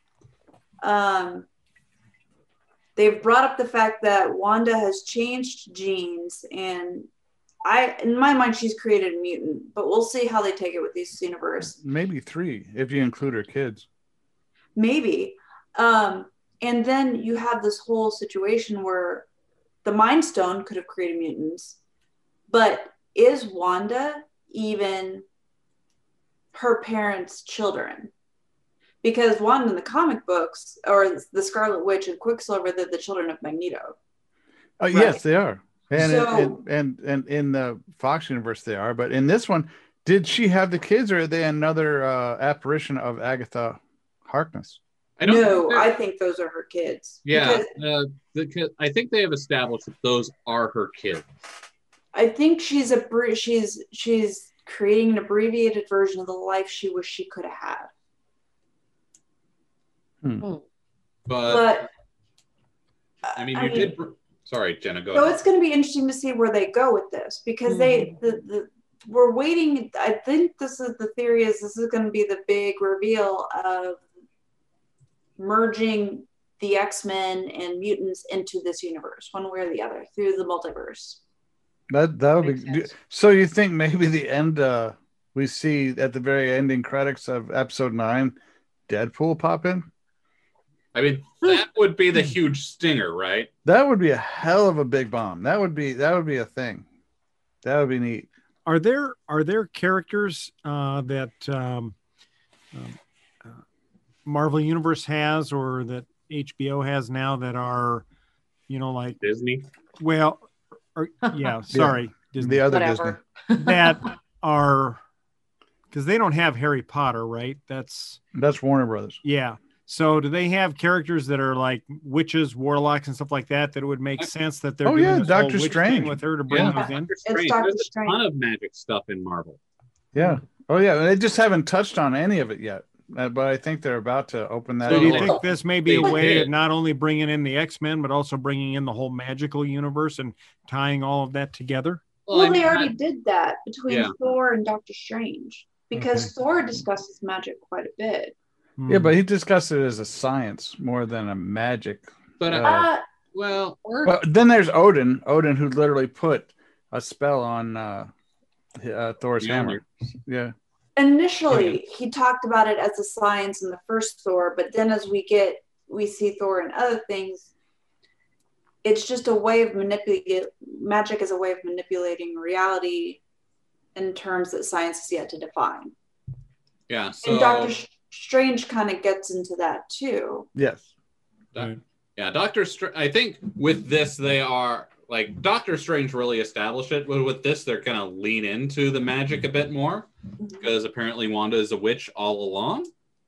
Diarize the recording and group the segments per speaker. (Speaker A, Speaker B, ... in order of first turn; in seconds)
Speaker A: 0.8-1.4, 3.0-7.1, 7.6-11.8, 14.8-19.2, 19.8-21.8, 22.5-25.2, 26.5-28.1, 29.0-33.9, 34.9-35.2, 36.0-36.6, 45.2-47.7, 52.1-57.9, 61.5-61.9, 63.3-63.9, 65.1-74.0, 75.4-81.2, 126.7-128.2, 142.3-148.3, 152.6-153.0, 160.9-167.5, 168.8-173.2, 173.9-175.9, 177.2-180.5
Speaker B: 11.7-13.9, 34.8-44.8, 81.9-88.3, 88.9-89.9, 93.6-96.8, 97.6-98.3, 111.7-113.2, 118.3-119.2, 124.8-126.8, 130.1-135.4, 146.0-146.2, 148.9-152.9, 154.0-158.1, 158.8-160.5, 180.5-180.9
Speaker C: 45.2-45.9, 47.2-51.3, 61.3-61.8, 63.4-65.4, 90.9-93.5, 109.2-109.7, 126.5-129.6, 134.9-136.5, 142.3-142.9, 143.9-144.1, 152.4-153.8, 159.4-159.8, 176.9-177.8, 181.5-190.1, 190.6-192.9
Speaker D: 67.7-68.1, 82.4-82.9, 111.3-111.5, 112.7-114.1, 153.8-154.2
Speaker E: 98.7-101.9, 102.7-103.6, 104.2-108.0, 108.7-109.2, 110.0-112.7, 113.6-115.0, 115.9-118.2, 119.2-127.1, 134.9-142.1, 148.8-149.1